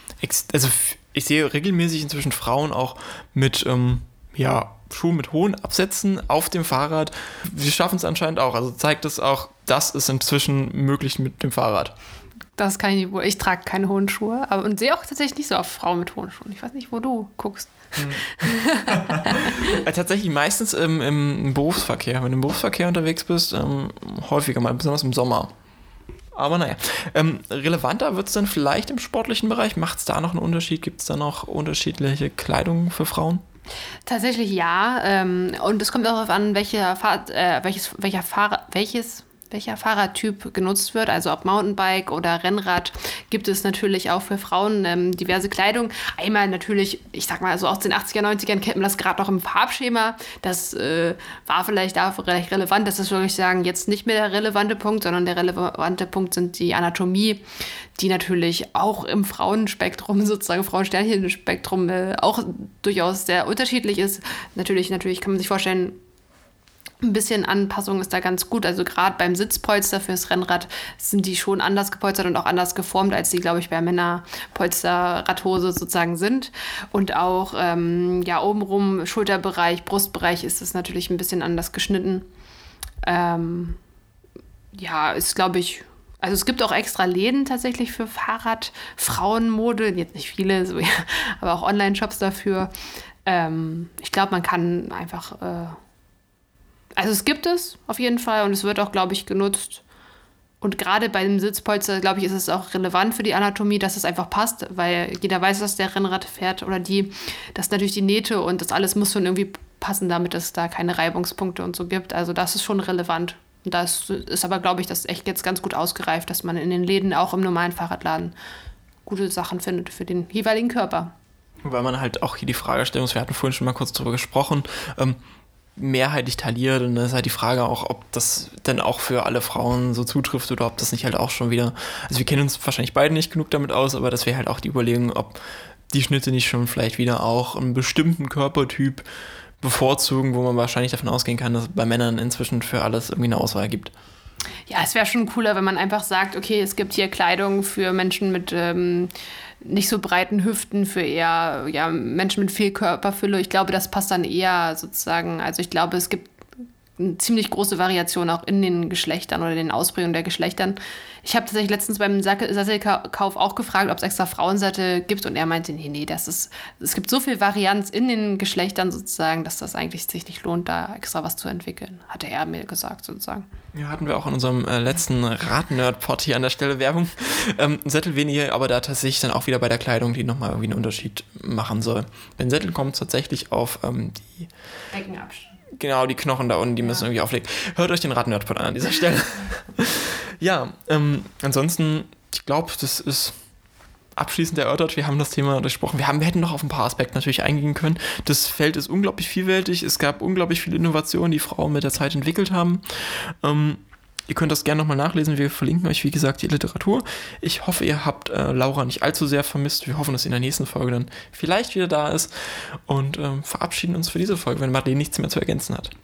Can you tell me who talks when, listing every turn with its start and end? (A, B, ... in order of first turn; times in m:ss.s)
0:00.2-0:12.0 A
0:12.6-0:19.8 B
0:18.0-0:25.5 A
0:26.3-0:33.4 A
0:34.1-0:57.4 B
0:58.0-1:06.0 B
1:07.0-1:22.3 B
1:23.0-1:23.8 B
1:24.7-1:32.7 B
1:33.3-1:35.8 B
1:37.0-1:39.8 B
1:40.6-1:58.3 B
1:59.1-2:01.1 B
2:01.6-2:05.2 A
2:05.8-2:15.4 A
2:15.9-2:19.0 A
2:19.6-2:23.9 A
2:24.7-2:29.1 B
2:29.6-2:36.3 B
2:37.0-2:53.5 B
2:53.7-3:04.5 A
3:04.9-3:05.6 B
3:05.7-3:13.4 A
3:14.2-3:35.9 A